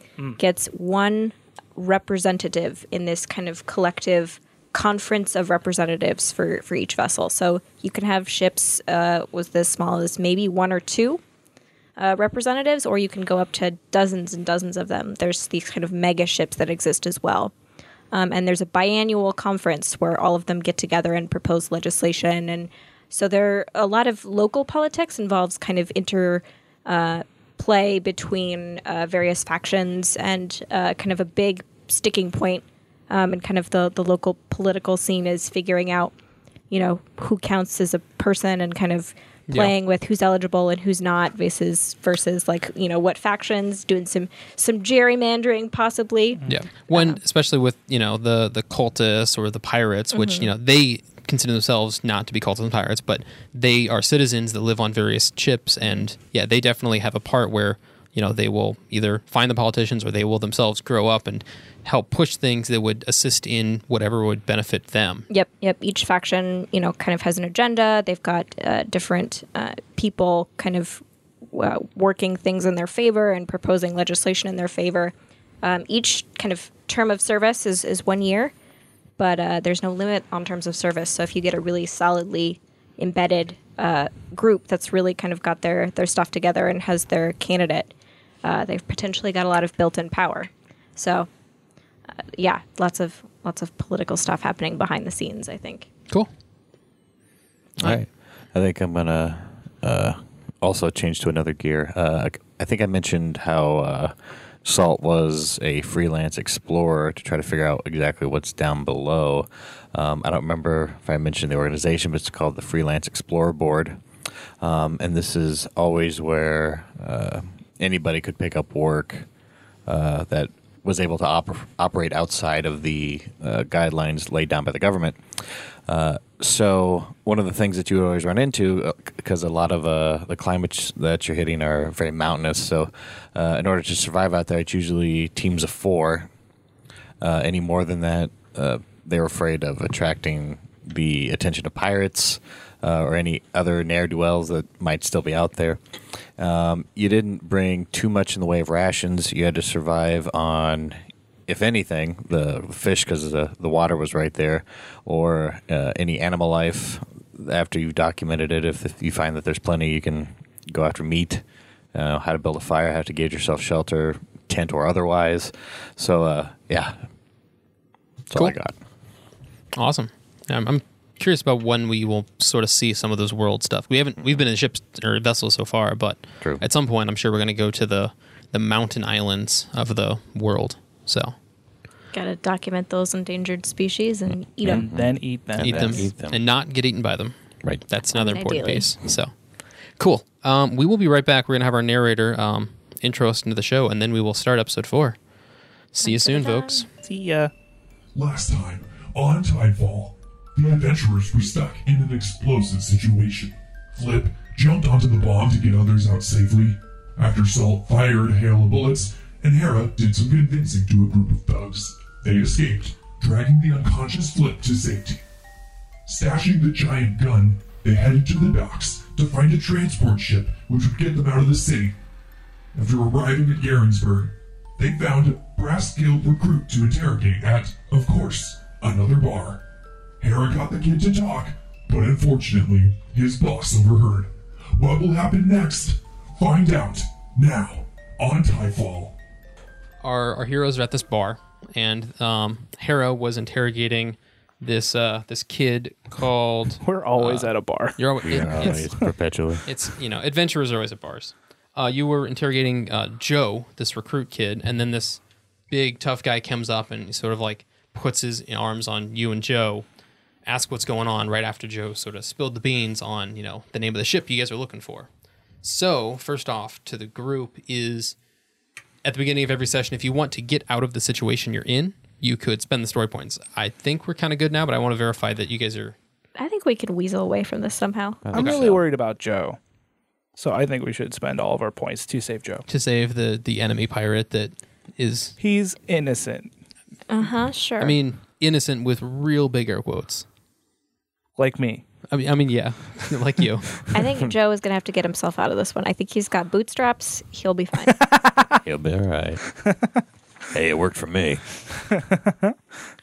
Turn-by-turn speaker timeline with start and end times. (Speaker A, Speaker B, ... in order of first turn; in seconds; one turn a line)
Speaker A: 0.4-11.2
Speaker A: 12.0-17.5
Speaker A: 18.1-36.1
Speaker A: 36.7-47.2
Speaker B: 39.5-39.7
Speaker B: 46.5-65.3
Speaker A: 50.1-50.5
Speaker A: 65.3-78.5
Speaker A: 79.2-87.9
Speaker A: 88.4-91.3
Speaker A: 92.3-95.9
Speaker C: 97.8-114.0
Speaker C: 114.6-119.3
Speaker C: 119.8-136.3
Speaker C: 137.2-145.8
Speaker C: 146.4-167.0
Speaker C: 168.3-168.8
Speaker B: 169.7-181.3
Speaker A: 182.1-184.8
Speaker C: 184.6-186.4
Speaker D: 184.7-186.1
Speaker B: 185.6-187.3
Speaker B: 187.9-189.3
Speaker A: 188.1-188.9
Speaker B: 190.0-195.2
Speaker B: 195.9-196.9
Speaker A: 196.0-196.8
Speaker D: 197.0-197.5
Speaker E: 198.1-215.2
Speaker E: 216.1-221.9
Speaker E: 222.7-229.6
Speaker E: 230.2-239.2
Speaker B: 240.0-249.0
Speaker D: 246.8-249.1
Speaker C: 248.2-249.7
Speaker B: 249.7-259.8
Speaker B: 260.4-265.1
Speaker B: 265.6-268.1
Speaker B: 269.0-275.9
Speaker A: 276.4-278.2
Speaker C: 278.2-278.8
Speaker D: 278.3-279.6
Speaker B: 278.3-278.7
Speaker D: 280.4-282.6
Speaker B: 282.7-285.4
Speaker D: 285.4-286.5
Speaker A: 287.1-287.9
Speaker B: 287.8-290.2
Speaker D: 291.4-291.8
Speaker B: 292.1-293.9
Speaker A: 293.9-298.0
Speaker D: 297.9-298.6
Speaker C: 298.6-299.4
Speaker C: 300.5-301.4
Speaker D: 301.9-302.6